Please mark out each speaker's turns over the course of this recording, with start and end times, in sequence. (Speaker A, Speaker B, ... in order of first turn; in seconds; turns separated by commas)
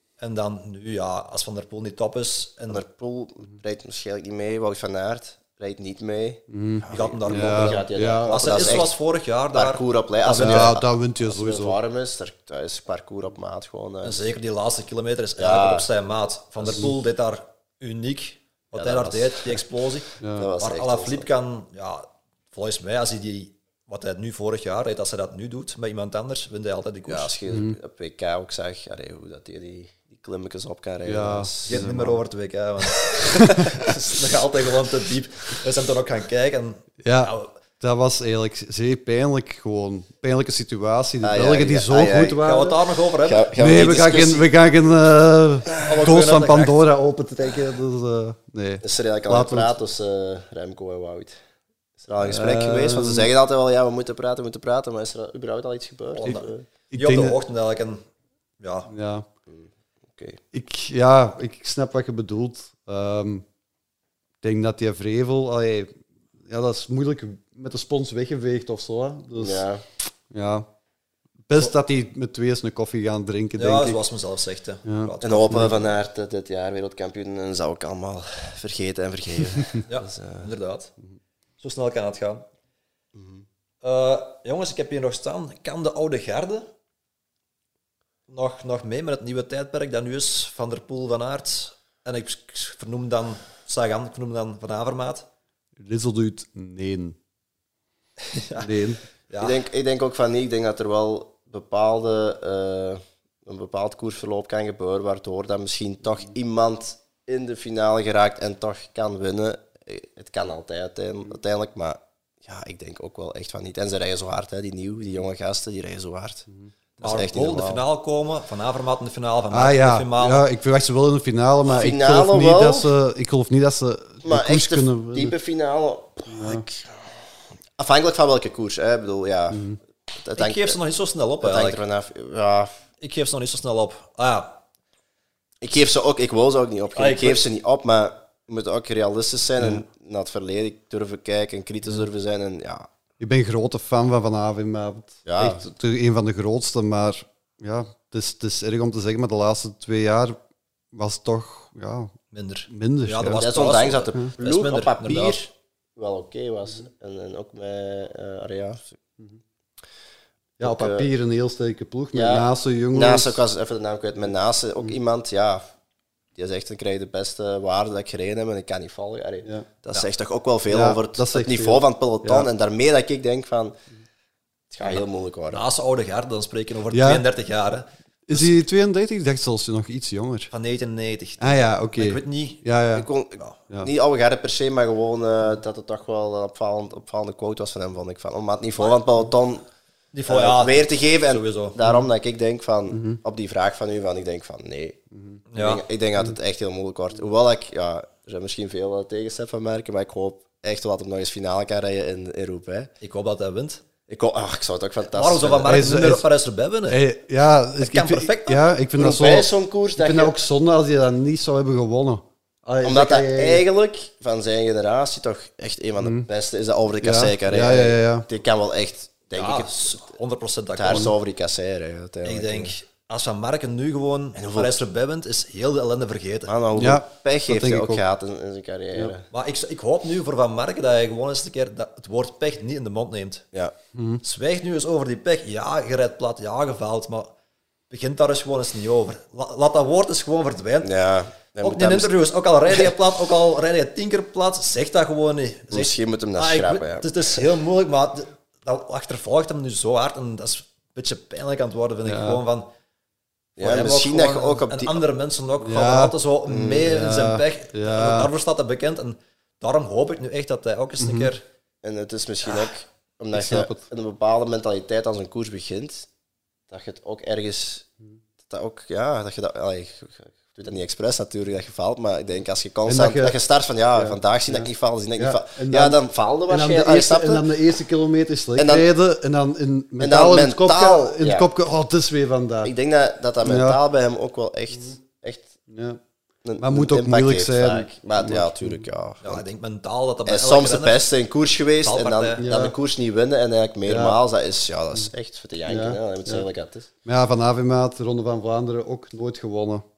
Speaker A: 0.2-2.8, Speaker B: 2.7-8.9, Speaker C: 6.5-8.8, Speaker A: 6.9-10.7, Speaker B: 9.5-14.3, Speaker C: 10.3-11.8, Speaker A: 14.0-27.3, Speaker B: 15.4-15.9, Speaker B: 18.7-19.6, Speaker C: 20.2-20.5, Speaker B: 20.3-21.3, Speaker B: 27.1-31.9, Speaker C: 27.5-27.8, Speaker C: 31.0-32.2, Speaker A: 31.6-37.5, Speaker C: 33.5-33.8, Speaker C: 37.0-42.8, Speaker B: 41.2-42.4, Speaker A: 42.4-44.4, Speaker B: 43.2-44.5, Speaker C: 43.5-49.7, Speaker A: 45.8-46.8, Speaker B: 48.8-51.4, Speaker B: 52.0-56.6, Speaker C: 52.2-53.3, Speaker A: 56.1-58.0, Speaker C: 56.9-57.4, Speaker A: 58.6-58.9, Speaker C: 58.9-59.3, Speaker B: 59.5-60.4, Speaker C: 60.5-63.5, Speaker C: 64.4-69.6, Speaker B: 69.4-69.8, Speaker C: 70.3-70.7, Speaker C: 71.5-74.0, Speaker A: 73.6-75.9, Speaker C: 74.8-75.7, Speaker B: 75.2-80.5, Speaker A: 79.9-80.9, Speaker A: 81.6-82.5, Speaker B: 83.1-83.4, Speaker A: 83.8-86.7, Speaker A: 88.3-95.2, Speaker C: 95.8-97.2, Speaker A: 98.2-98.7, Speaker C: 98.6-99.0, Speaker A: 99.3-99.6, Speaker B: 99.4-116.5, Speaker B: 117.0-117.8, Speaker A: 117.0-120.4, Speaker C: 119.5-125.3, Speaker B: 121.7-122.9, Speaker B: 124.2-127.0, Speaker C: 126.3-126.6, Speaker B: 127.8-130.8, Speaker C: 129.5-129.8, Speaker A: 130.3-131.8, Speaker B: 131.4-132.7, Speaker A: 133.0-134.6, Speaker B: 135.6-142.9, Speaker A: 136.9-137.4, Speaker C: 139.6-139.8, Speaker C: 143.2-150.4, Speaker B: 145.2-145.6, Speaker C: 150.9-152.1, Speaker A: 152.3-155.5, Speaker C: 152.7-153.4, Speaker B: 153.3-159.0, Speaker C: 160.6-163.4, Speaker B: 160.6-161.1, Speaker B: 162.1-165.6, Speaker B: 166.3-173.8, Speaker C: 170.7-172.5, Speaker B: 174.7-175.6, Speaker A: 174.8-178.5, Speaker C: 176.9-177.2, Speaker C: 178.3-180.5, Speaker A: 180.5-182.6, Speaker C: 181.4-183.1, Speaker B: 182.9-189.6, Speaker A: 190.1-191.8, Speaker B: 190.3-195.0, Speaker C: 192.9-193.2, Speaker A: 195.5-195.8, Speaker B: 195.6-202.9, Speaker A: 203.0-203.8, Speaker B: 204.1-205.8, Speaker A: 205.1-207.0, Speaker C: 205.6-206.2, Speaker C: 206.9-213.6, Speaker A: 207.8-208.6, Speaker B: 209.0-210.4, Speaker B: 212.8-220.1, Speaker C: 216.0-216.3, Speaker C: 217.0-218.2, Speaker A: 219.3-221.1, Speaker B: 220.8-222.7, Speaker A: 222.2-226.5, Speaker B: 224.3-224.8, Speaker B: 226.5-229.3, Speaker C: 226.8-228.0, Speaker A: 229.3-233.4, Speaker C: 233.9-234.2, Speaker A: 234.2-237.3, Speaker A: 237.9-240.9, Speaker B: 240.8-242.1, Speaker A: 241.6-252.7, Speaker B: 242.7-243.0, Speaker B: 245.7-247.3, Speaker C: 252.1-252.4, Speaker B: 253.6-255.0, Speaker A: 253.6-261.4, Speaker C: 255.6-256.1, Speaker B: 256.5-256.9, Speaker C: 256.7-258.3, Speaker C: 261.0-261.3, Speaker B: 261.8-266.1, Speaker C: 263.3-263.8, Speaker B: 266.7-267.9, Speaker B: 268.5-277.5, Speaker C: 272.9-273.4, Speaker C: 273.9-282.7, Speaker B: 278.6-278.9, Speaker B: 280.0-281.5, Speaker B: 282.6-285.5, Speaker C: 283.4-283.8, Speaker C: 285.7-286.0, Speaker B: 286.4-289.4, Speaker C: 286.6-288.9, Speaker A: 289.2-291.1, Speaker B: 290.2-296.9, Speaker A: 291.8-292.4, Speaker C: 292.4-292.7, Speaker C: 293.9-294.2, Speaker C: 295.7-296.4, Speaker C: 297.0-299.8